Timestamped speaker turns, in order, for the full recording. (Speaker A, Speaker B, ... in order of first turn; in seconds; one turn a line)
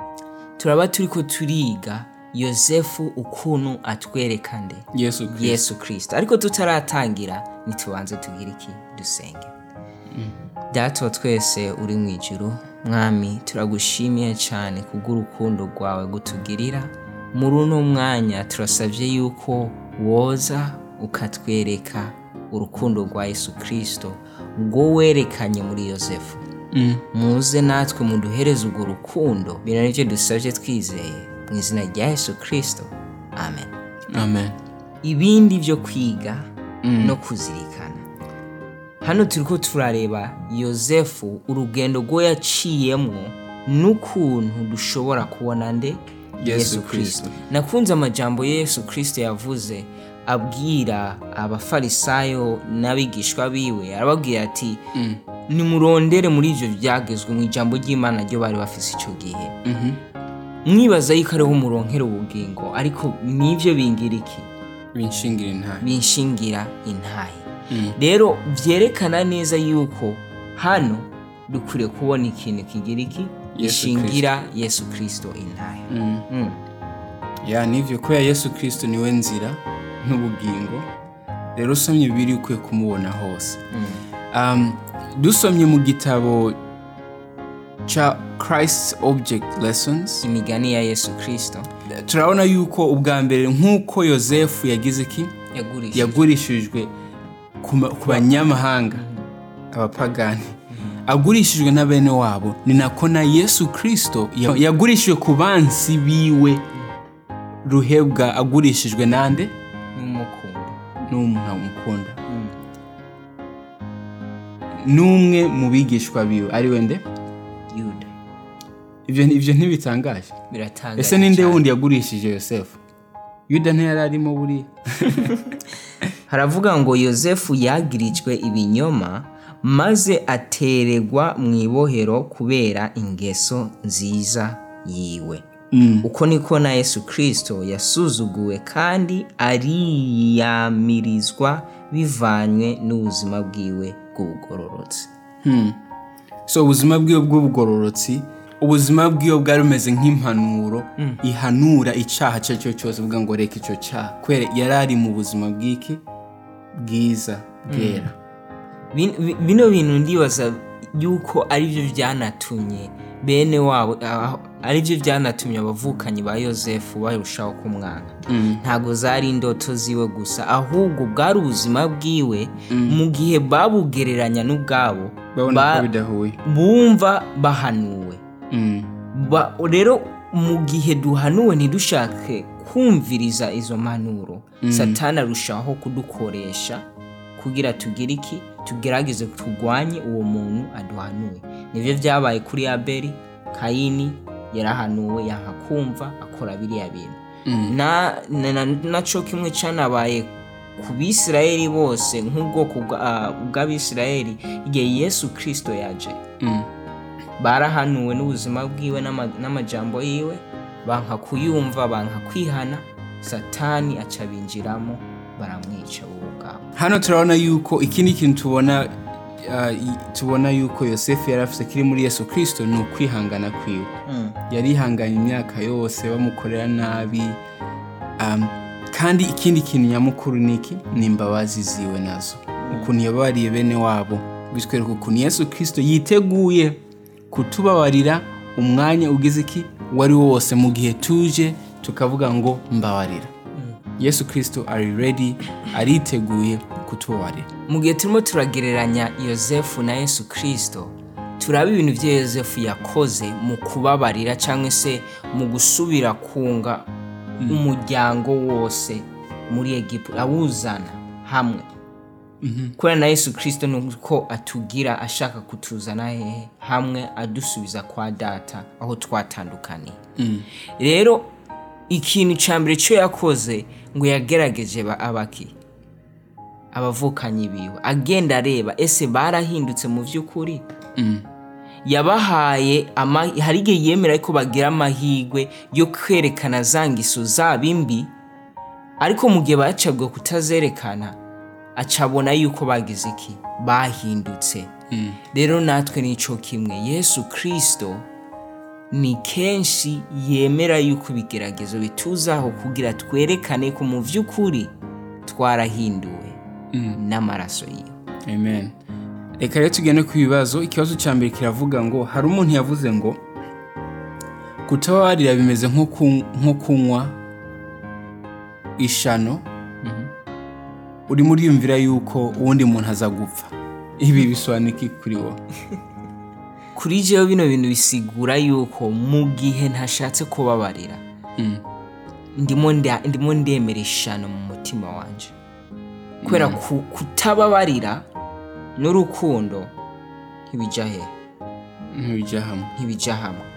Speaker A: 0.6-9.5
Speaker B: 4.9-5.7
Speaker A: 10.7-26.4
Speaker B: 26.7-27.0
Speaker A: 27.1-33.8
Speaker B: 34.1-34.5
Speaker A: 35.0-38.0
Speaker B: 36.8-37.2
Speaker A: 39.0-54.8
Speaker B: 46.4-47.4
Speaker B: 54.9-55.2
Speaker A: 55.5-59.6
Speaker B: 59.6-60.0
Speaker A: 60.6-64.5
Speaker B: 64.9-65.9
Speaker A: 65.8-76.6
Speaker B: 67.7-68.0
Speaker B: 73.5-74.3
Speaker B: 75.9-76.3
Speaker B: 77.4-80.9
Speaker B: 81.5-83.6
Speaker A: 83.7-84.0
Speaker B: 84.3-86.6
Speaker B: 87.8-90.2
Speaker A: 90.2-91.7
Speaker B: 91.9-95.3
Speaker A: 95.5-96.3
Speaker B: 95.9-96.9
Speaker B: 97.6-99.0
Speaker A: 98.0-99.3
Speaker B: 99.7-106.7
Speaker B: 107.6-109.5
Speaker A: 109.9-110.8
Speaker B: 111.1-112.2
Speaker A: 112.3-112.5
Speaker B: 114.8-117.0
Speaker A: 117.7-118.1
Speaker B: 119.0-120.3
Speaker A: 120.5-121.7
Speaker B: 121.0-122.8
Speaker B: 123.5-125.4
Speaker A: 126.3-135.5
Speaker B: 135.7-136.1
Speaker A: 136.0-145.1
Speaker B: 145.4-145.8
Speaker B: 146.5-156.0
Speaker B: 156.7-158.1
Speaker A: 157.7-158.1
Speaker A: 158.9-175.9
Speaker B: 168.3-168.6
Speaker B: 172.7-173.0
Speaker B: 175.3-176.4
Speaker A: 176.4-178.2
Speaker B: 178.5-178.9
Speaker A: 179.1-206.2
Speaker B: 184.6-185.0
Speaker B: 197.4-197.8
Speaker B: 206.4-206.7
Speaker A: 207.4-216.7
Speaker B: 216.7-223.9
Speaker A: 224.1-224.4
Speaker B: 224.5-227.4
Speaker B: 228.2-236.8
Speaker A: 232.6-232.9
Speaker B: 237.3-243.3
Speaker B: 244.0-247.5
Speaker A: 247.7-256.9
Speaker A: 257.4-261.7
Speaker B: 262.4-262.8
Speaker A: 262.8-270.0
Speaker B: 270.2-270.5
Speaker A: 270.8-271.3
Speaker A: 271.9-275.5
Speaker A: 276.7-280.6
Speaker B: 281.0-281.3
Speaker A: 281.8-288.1
Speaker A: 289.0-291.2
Speaker A: 291.8-294.7
Speaker B: 294.9-295.2
Speaker A: 295.3-298.1
Speaker A: 298.9-304.7
Speaker A: 305.2-306.4
Speaker B: 306.7-307.0
Speaker A: 306.9-308.0
Speaker B: 308.2-308.7
Speaker B: 309.4-313.2
Speaker B: 314.6-317.1
Speaker B: 318.8-319.4
Speaker A: 319.8-320.1
Speaker B: 321.1-325.4
Speaker A: 326.7-331.0
Speaker B: 331.4-331.6
Speaker A: 332.3-335.3
Speaker B: 336.2-336.6
Speaker A: 336.2-338.1
Speaker A: 338.8-339.7
Speaker A: 340.5-341.1
Speaker B: 341.9-342.7
Speaker A: 342.7-343.5